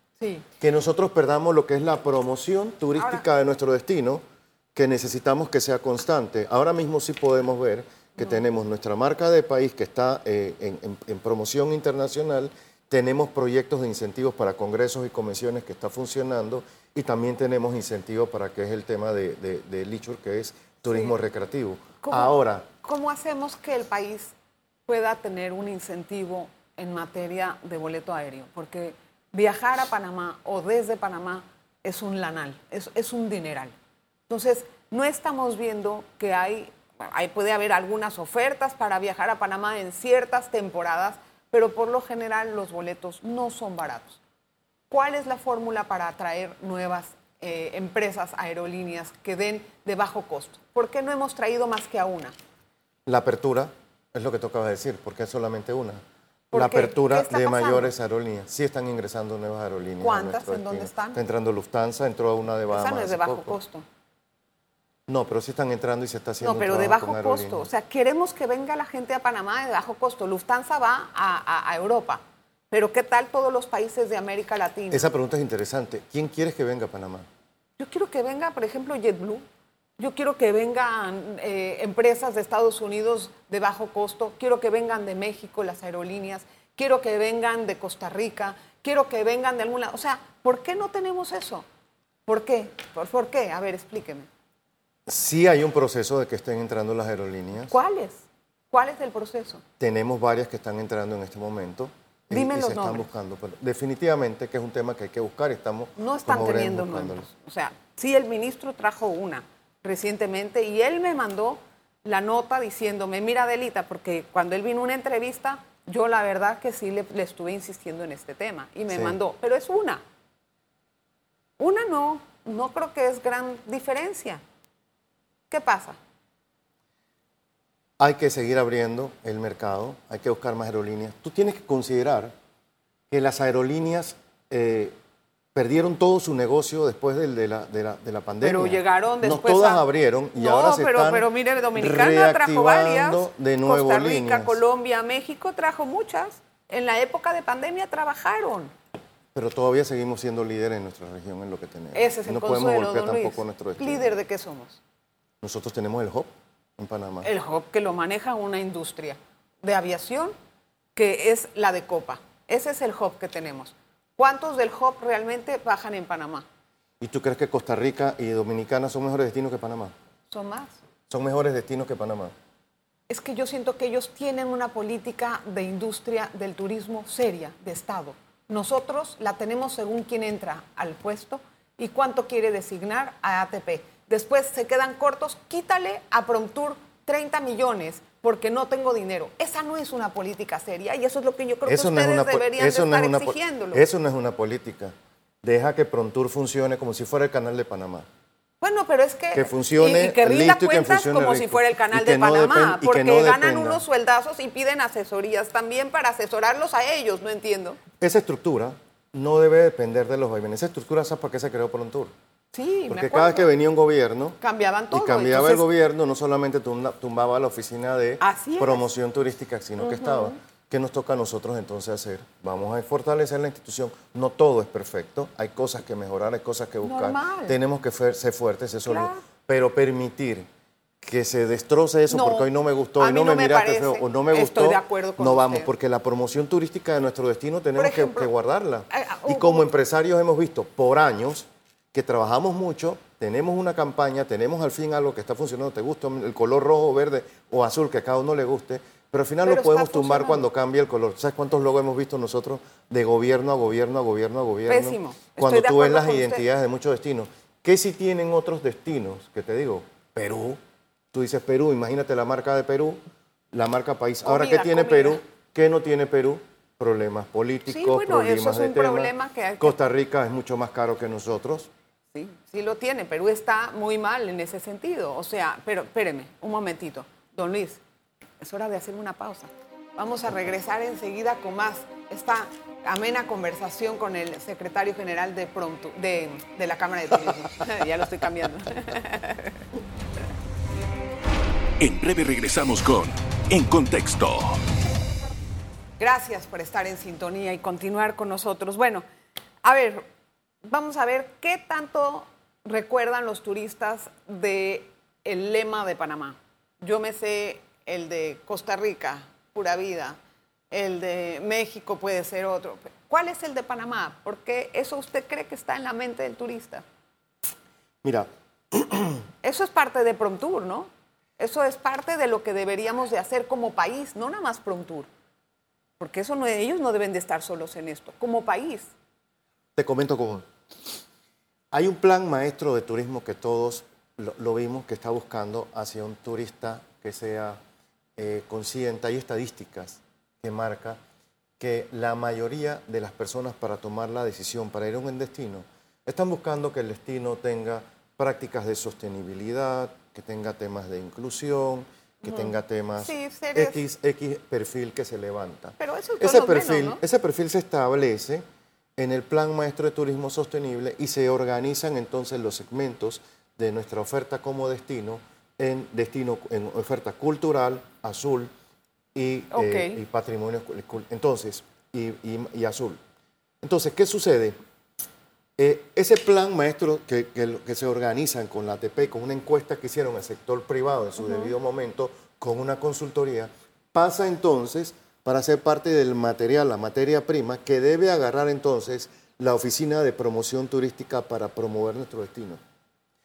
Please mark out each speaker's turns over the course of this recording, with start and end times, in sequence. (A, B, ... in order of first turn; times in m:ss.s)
0:00.2-0:00.5 A
0:00.6-0:04.2 B
0:03.0-0:03.2 A
0:04.8-0:22.7 B
0:22.0-0:24.3 A
0:24.9-0:33.7 A
0:34.3-0:44.2 A
0:44.9-0:52.4 A
0:53.1-0:56.0 B
0:56.5-0:57.9 A
0:56.5-1:03.6 B
1:00.0-1:01.2 A
1:02.7-1:03.9 A
1:05.1-1:07.7 B
1:06.4-1:15.1 A
1:14.9-1:17.3 B
1:17.8-1:19.4 A
1:20.0-1:31.7 A
1:32.3-1:34.3 A
1:35.1-1:37.8 B
1:37.7-1:39.6 A
1:39.8-1:47.3 B
1:42.3-1:43.1 A
1:46.0-2:00.0 A
1:58.9-1:59.2 B
2:01.6-2:04.4 A
2:05.5-2:06.0 A
2:08.0-2:12.3 B
2:13.1-2:15.0 B
2:15.6-2:24.6 B
2:18.4-2:19.8 A
2:20.4-2:28.7 A
2:29.3-2:34.1 B
2:31.9-2:34.8 A
2:35.4-2:37.3 B
2:37.2-2:40.3 A
2:41.0-2:46.5 A
2:47.0-2:49.9 B
2:50.3-2:50.8 A
2:51.1-2:52.3 B
2:53.1-3:13.8 A
3:11.7-3:18.1 B
3:18.6-3:27.8 A
3:19.3-3:23.8 B
3:28.0-3:32.1 B
3:32.5-3:33.5 A
3:32.9-3:34.4 B
3:34.4-3:35.6 A
3:34.9-3:50.5 B
3:38.2-3:38.9 A
3:39.8-3:40.4 A
3:46.8-3:47.6 A
3:48.9-3:49.2 A
3:51.0-4:20.6 B
3:52.1-3:55.7 A
3:57.8-3:58.3 A
3:58.9-3:59.7 A
4:09.4-4:10.4 A
4:14.7-4:16.4 A
4:21.1-4:23.0 B
4:23.5-4:31.7 B
4:24.2-4:25.2 A
4:27.7-4:29.8 A
4:32.1-4:37.8 A
4:38.4-4:49.6 A
4:51.8-4:54.6 C
4:56.0-4:59.0 A
4:59.6-5:00.0 A
5:00.7-5:10.2 A
5:10.7-5:16.8 A
5:18.0-5:19.2 B
5:19.4-5:25.1 A
5:26.0-5:28.9 A
5:29.8-5:30.5 B
5:31.7-5:37.6 B
5:38.2-5:41.0 B
5:41.6-5:58.4 B
5:53.0-5:53.8 A
5:55.8-5:57.0 A
5:59.0-6:08.5 B
6:09.1-6:13.0 B
6:09.5-6:10.0 A
6:13.6-6:14.6 B
6:15.6-6:32.6 B
6:21.2-6:21.5 A